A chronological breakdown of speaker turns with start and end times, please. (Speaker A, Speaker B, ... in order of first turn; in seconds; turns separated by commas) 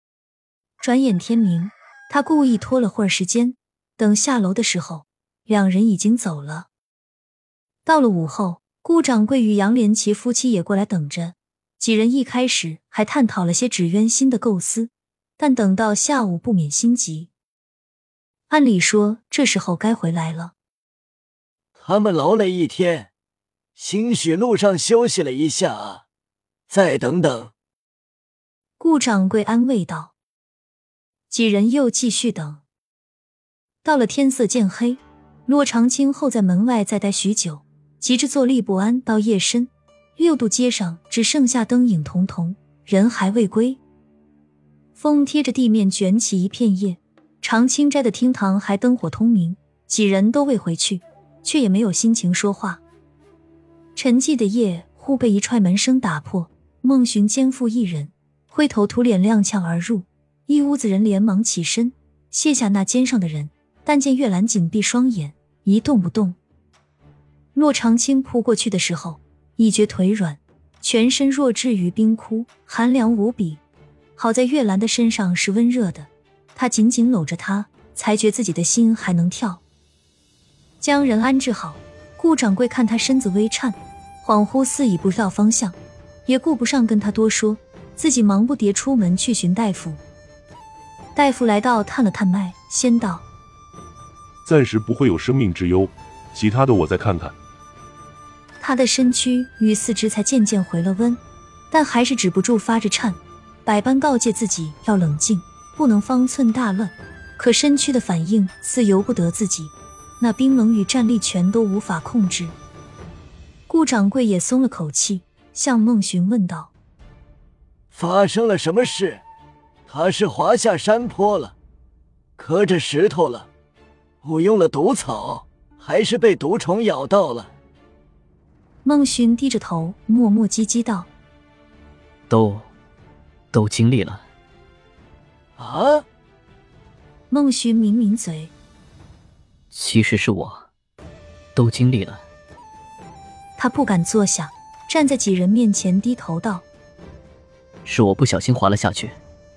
Speaker A: 0.8-6.7, Speaker A: 7.8-17.3, Speaker A: 18.5-20.5, Speaker B: 21.8-23.1, Speaker B: 23.8-26.0, Speaker B: 26.7-27.5, Speaker A: 28.8-30.1, Speaker A: 31.3-32.6, Speaker A: 33.8-43.8, Speaker A: 45.0-52.8, Speaker A: 54.0-66.4, Speaker A: 67.5-73.6, Speaker A: 74.2-79.6, Speaker A: 80.8-90.0, Speaker A: 91.2-93.2, Speaker C: 94.5-97.3, Speaker A: 98.6-101.2, Speaker A: 101.7-112.6, Speaker A: 113.7-116.7, Speaker B: 117.9-119.2, Speaker B: 119.9-121.5, Speaker B: 122.4-123.5, Speaker B: 124.2-127.5, Speaker A: 128.8-131.1, Speaker D: 132.3-132.7, Speaker D: 133.5-134.2, Speaker B: 135.6-136.1, Speaker A: 137.3-138.5, Speaker D: 139.7-140.7, Speaker D: 141.6-142.2, Speaker A: 143.6-146.7, Speaker D: 147.8-149.2